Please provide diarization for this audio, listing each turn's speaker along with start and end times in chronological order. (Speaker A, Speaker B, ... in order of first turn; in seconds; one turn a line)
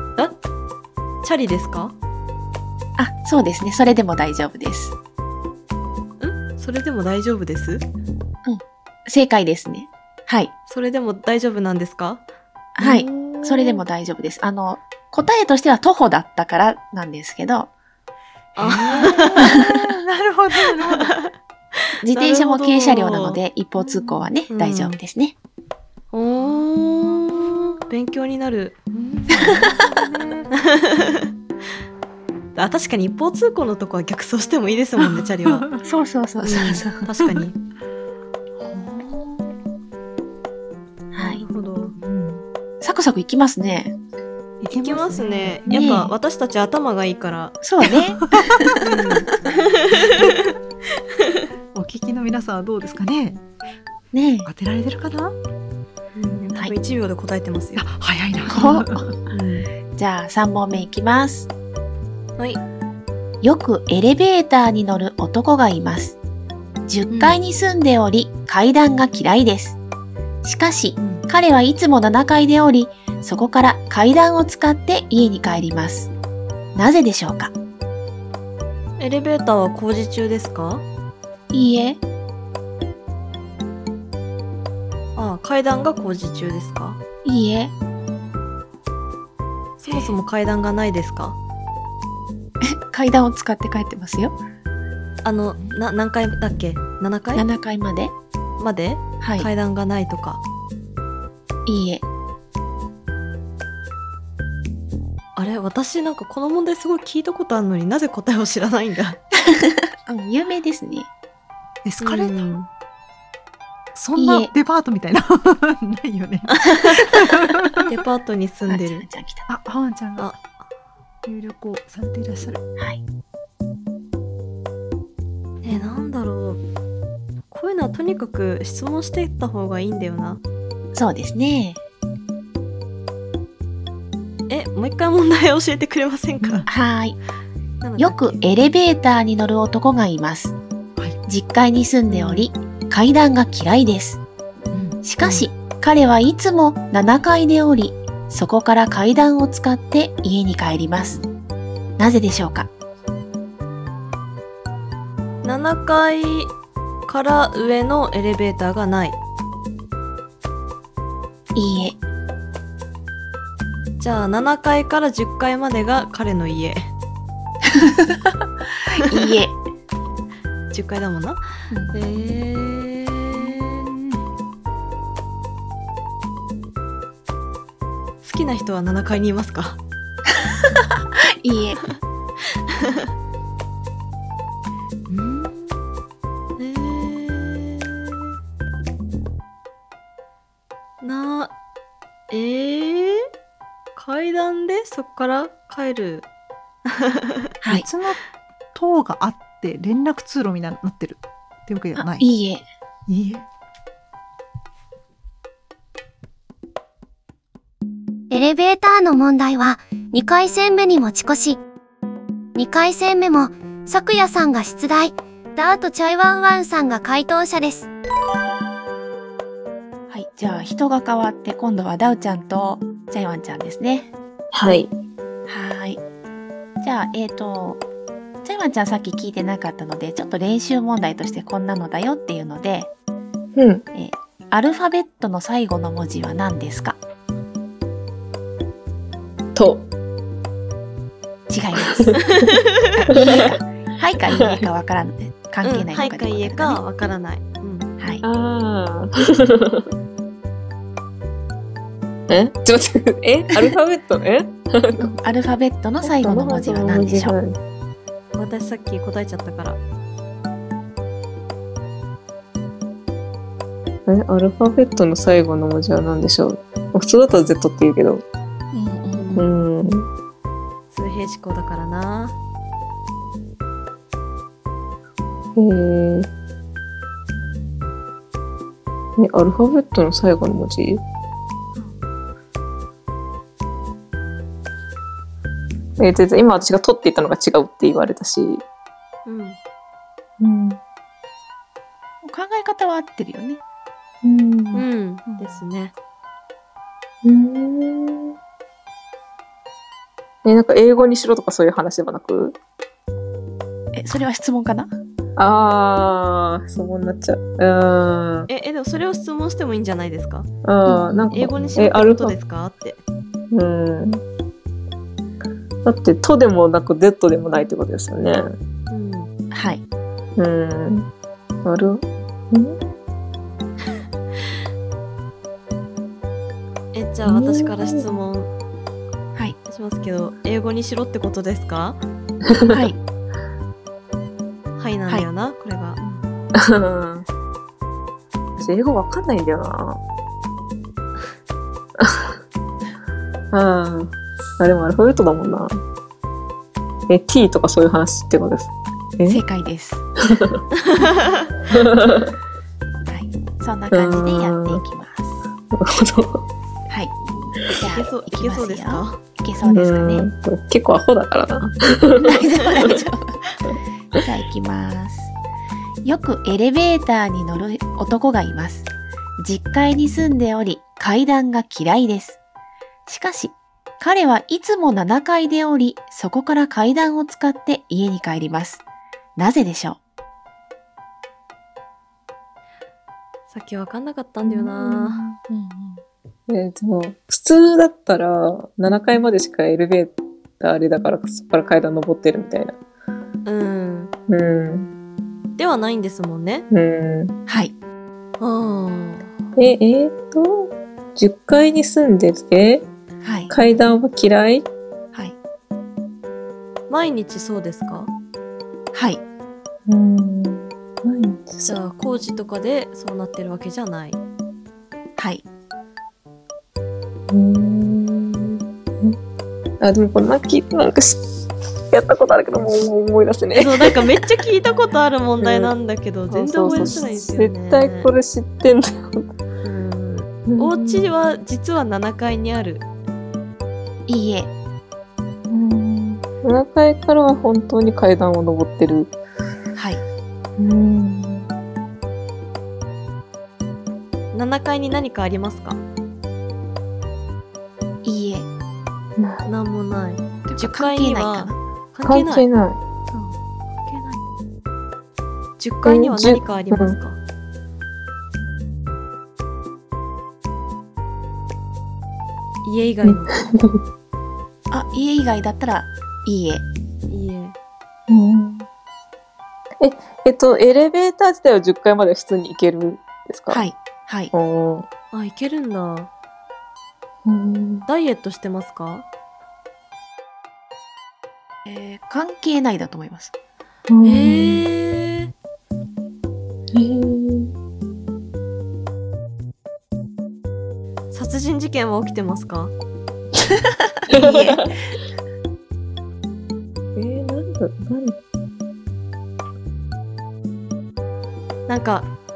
Speaker A: 1.2-1.9
Speaker B: 3.0-4.9
Speaker A: 6.2-7.8
Speaker B: 8.4-10.5
Speaker A: 10.7-12.2
Speaker B: 12.8-17.7
Speaker C: 12.8-13.8
Speaker A: 18.5-19.6
Speaker C: 18.6-21.1
Speaker B: 19.4-19.8
Speaker A: 20.7-23.4
Speaker B: 22.0-25.3
Speaker A: 24.5-25.0
Speaker A: 26.1-29.9
Speaker C: 29.3-30.5
Speaker B: 29.3-29.6
Speaker A: 30.5-31.3
Speaker A: 32.5-35.6
Speaker C: 35.0-35.8
Speaker B: 35.8-37.0
Speaker A: 36.4-37.5
Speaker C: 38.6-39.5
Speaker B: 41.1-41.4
Speaker A: 41.2-41.9
Speaker C: 42.0-42.4
Speaker B: 42.8-43.9
Speaker C: 44.6-46.1
Speaker A: 44.6-47.6
Speaker B: 45.7-46.1
Speaker B: 47.6-48.8
Speaker C: 47.9-49.3
Speaker A: 48.8-50.5
Speaker C: 50.0-50.3
Speaker A: 51.1-51.4
Speaker C: 51.7-53.4
Speaker B: 54.1-54.5
Speaker C: 54.5-55.3
Speaker A: 56.1-57.9
Speaker C: 57.8-59.1
Speaker B: 58.5-59.1
Speaker A: 59.3-59.7
Speaker B: 60.0-61.5
Speaker B: 63.4-66.2
Speaker B: 66.9-69.8
Speaker A: 67.1-67.4
Speaker B: 70.4-76.1
Speaker B: 76.7-77.5
Speaker A: 79.0-80.8
Speaker B: 81.5-82.0
Speaker A: 85.2-87.0
Speaker B: 87.2-87.7
Speaker A: 89.8-91.4
Speaker B: 92.6-94.3
Speaker A: 95.2-97.5
Speaker B: 97.3-98.1
Speaker A: 98.6-100.4
Speaker B: 99.2-99.5
Speaker B: 101.7-102.0
Speaker A: 105.3-109.2
Speaker B: 109.4-111.1
Speaker C: 111.8-112.5
Speaker A: 112.0-112.7
Speaker C: 113.9-117.9
Speaker B: 114.2-114.5
Speaker A: 116.5-117.2
Speaker A: 117.9-119.0
Speaker B: 118.7-119.5
Speaker C: 119.5-120.4
Speaker C: 121.2-122.6
Speaker A: 125.6-126.6
Speaker A: 127.5-130.4
Speaker B: 130.9-131.8
Speaker A: 134.5-136.7
Speaker B: 136.7-137.2
Speaker A: 137.8-138.4
Speaker B: 138.0-140.5
Speaker B: 141.2-144.2
Speaker A: 142.1-142.5
Speaker C: 144.7-145.4
Speaker B: 145.0-151.2
Speaker B: 152.0-152.7
Speaker A: 155.4-156.5
Speaker A: 157.1-159.2
Speaker B: 161.5-162.0
Speaker A: 164.0-166.9
Speaker B: 167.7-168.2
Speaker B: 168.8-169.6
Speaker A: 170.7-171.4
Speaker B: 171.7-172.0
Speaker A: 171.9-173.9
Speaker C: 173.3-174.2
Speaker A: 178.2-179.8
Speaker B: 181.4-181.8
Speaker A: 182.7-183.1
Speaker A: 185.1-185.8
Speaker A: 186.6-188.3
Speaker A: 191.0-191.5
Speaker A: 192.3-193.2
Speaker A: 193.9-196.3
Speaker A: 196.8-197.5
Speaker C: 197.7-198.2
Speaker C: 198.7-202.3
Speaker B: 202.0-202.6
Speaker C: 203.1-203.4
Speaker D: 208.3-211.6
Speaker D: 212.5-217.9
Speaker B: 220.1-224.1
Speaker E: 224.5-224.9
Speaker B: 225.5-226.0
Speaker B: 226.8-227.8
Speaker B: 228.4-232.9
Speaker E: 233.6-233.8
Speaker B: 233.9-237.0
Speaker E: 239.5-239.9
Speaker B: 241.5-242.2
Speaker A: 242.4-243.2
Speaker B: 242.9-246.8
Speaker E: 243.1-243.4
Speaker E: 244.2-244.7
Speaker A: 245.6-247.9
Speaker B: 248.0-248.2
Speaker E: 248.2-249.9
Speaker E: 252.3-255.1
Speaker B: 255.0-257.3
Speaker E: 256.0-257.6
Speaker A: 258.4-259.8
Speaker E: 264.1-268.2
Speaker B: 268.7-269.4
Speaker A: 269.2-269.4
Speaker E: 269.4-270.1
Speaker A: 270.9-272.4
Speaker E: 275.6-276.3
Speaker E: 279.2-281.0
Speaker E: 286.0-288.6
Speaker A: 289.2-289.6
Speaker E: 290.4-290.8
Speaker B: 292.2-293.6
Speaker E: 294.2-294.8
Speaker A: 294.7-295.9
Speaker C: 295.2-295.6
Speaker E: 297.2-298.3
Speaker E: 300.4-302.6
Speaker B: 303.9-304.9
Speaker E: 305.4-308.5
Speaker A: 308.5-310.5
Speaker E: 310.6-312.3
Speaker B: 310.9-311.3
Speaker A: 311.3-313.0
Speaker E: 313.5-314.2
Speaker E: 315.8-318.5
Speaker A: 318.9-319.3
Speaker B: 319.5-319.8
Speaker E: 320.4-321.1
Speaker E: 321.6-322.8
Speaker A: 326.9-328.5
Speaker E: 327.2-328.0
Speaker A: 329.7-332.0
Speaker E: 332.5-332.8
Speaker B: 332.7-333.0
Speaker A: 334.8-336.0
Speaker E: 336.6-337.2
Speaker E: 338.6-340.0
Speaker E: 342.0-342.3
Speaker E: 343.5-345.8
Speaker E: 347.1-349.4
Speaker B: 349.3-350.0
Speaker E: 350.3-350.6
Speaker A: 350.8-351.5
Speaker E: 351.7-352.3
Speaker B: 353.1-355.4
Speaker E: 353.9-354.8
Speaker E: 355.7-356.4
Speaker B: 356.9-357.1
Speaker B: 357.7-360.2
Speaker A: 357.9-359.2
Speaker E: 359.6-362.9
Speaker B: 362.2-363.4
Speaker A: 362.8-363.1
Speaker B: 364.2-365.3
Speaker B: 366.0-368.9
Speaker B: 369.4-372.4
Speaker B: 373.1-378.8
Speaker B: 379.4-380.0
Speaker A: 383.5-385.2
Speaker B: 385.4-386.0
Speaker E: 386.5-392.7
Speaker A: 393.4-394.1
Speaker E: 394.3-394.9
Speaker A: 395.6-396.6
Speaker E: 396.7-397.4
Speaker B: 397.5-397.7
Speaker A: 398.4-399.3
Speaker E: 399.6-402.9
Speaker B: 403.2-403.5
Speaker E: 403.5-404.7
Speaker A: 406.9-408.1
Speaker B: 408.9-409.2
Speaker E: 409.9-411.8
Speaker A: 411.6-414.2
Speaker B: 415.2-415.4
Speaker E: 417.3-419.2
Speaker E: 419.8-421.3
Speaker E: 421.9-424.1
Speaker A: 423.5-428.1
Speaker E: 425.4-425.7
Speaker E: 426.3-429.3
Speaker A: 429.6-432.8
Speaker E: 430.5-431.1
Speaker B: 434.1-434.5
Speaker E: 435.5-439.1
Speaker B: 439.8-440.0
Speaker E: 440.6-441.5
Speaker A: 444.3-445.8
Speaker B: 448.0-448.5
Speaker E: 449.2-449.4
Speaker A: 449.4-452.4
Speaker B: 450.4-451.6
Speaker E: 452.0-452.8
Speaker A: 453.1-454.3
Speaker A: 455.6-457.2
Speaker E: 455.8-457.0
Speaker A: 462.6-463.3
Speaker E: 463.0-463.8
Speaker B: 464.7-466.6
Speaker A: 467.1-467.5
Speaker E: 468.1-468.6
Speaker E: 469.8-473.6
Speaker B: 473.5-474.3
Speaker E: 474.3-474.9
Speaker A: 475.1-476.1
Speaker E: 477.2-477.9
Speaker A: 477.9-479.1
Speaker B: 481.6-483.3
Speaker E: 483.9-484.6
Speaker A: 484.0-485.3
Speaker E: 486.7-487.5
Speaker A: 491.1-492.7
Speaker E: 494.1-494.7
Speaker B: 494.1-494.6
Speaker E: 496.9-498.2
Speaker A: 501.7-502.1